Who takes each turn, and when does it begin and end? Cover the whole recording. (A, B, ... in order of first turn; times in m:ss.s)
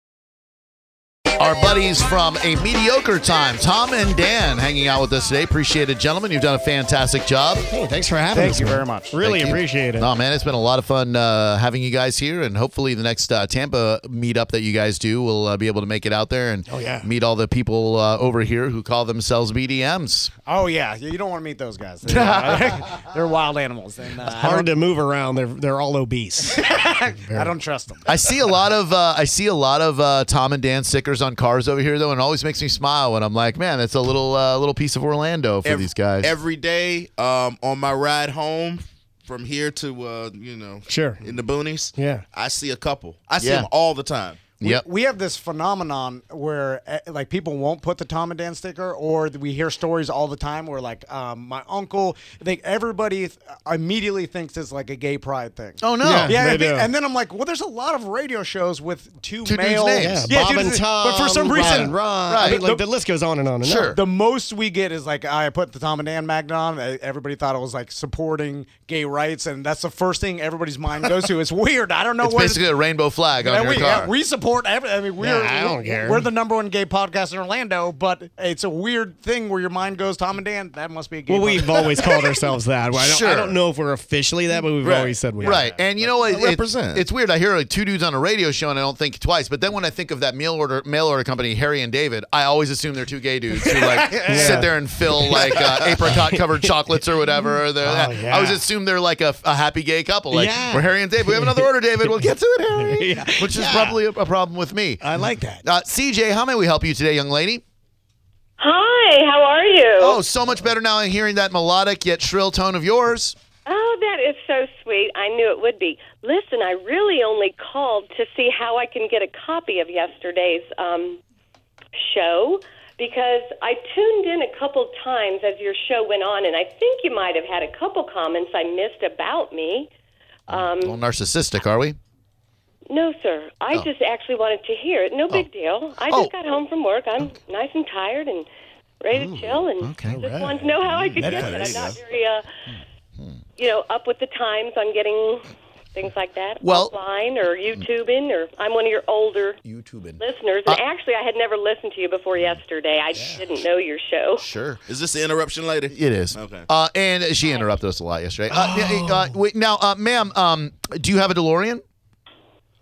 0:01.4-0:07.6 A
0:07.7-0:10.1 B
0:08.3-0:09.2 C
0:09.2-0:20.3 A
0:16.7-0:17.1 B
0:20.4-0:24.7 C
0:22.1-0:22.8 A
0:24.3-0:27.5 B
0:26.5-0:28.1 C
0:28.1-0:36.3 A
0:35.6-0:44.5 D
0:40.9-0:41.3 B
0:41.9-0:42.2 B
0:43.4-0:43.7 A
0:44.6-1:02.8 C
0:55.8-0:56.4 A
0:56.0-0:56.9 B
0:59.4-1:00.3 A
1:00.0-1:03.9 B
1:01.5-1:02.6 A
1:03.6-1:04.0 A
1:03.9-1:12.7 C
1:12.2-1:14.1 A
1:13.4-1:22.5 C
1:15.2-1:16.3 B
1:21.3-1:25.7 B
1:22.9-1:23.6 A
1:24.8-1:25.2 D
1:25.4-1:45.0 A
1:25.4-1:25.8 C
1:26.0-1:27.0 D
1:33.8-1:34.4 C
1:34.1-1:36.8 B
1:37.5-1:38.6 B
1:40.3-1:44.0 B
1:45.0-1:45.6 B
1:45.6-1:47.6 A
1:48.6-1:50.2 E
1:50.0-1:53.4 A
1:53.6-2:01.2 E
2:02.0-2:09.9 E
2:10.5-2:11.0 E
2:10.5-2:12.0 A
2:12.9-2:18.5 E
2:16.0-2:16.3 A
2:19.0-2:22.5 E
2:19.8-2:20.6 A
2:20.9-2:22.0 D
2:21.2-2:21.4 A
2:22.7-2:23.4 A
2:23.6-2:29.6 E
2:26.6-2:26.9 A
2:29.6-2:30.8 A
2:30.2-2:34.4 E
2:34.4-2:34.8 A
2:34.9-2:36.7 D
2:35.9-2:41.8 A
2:38.5-2:39.4 B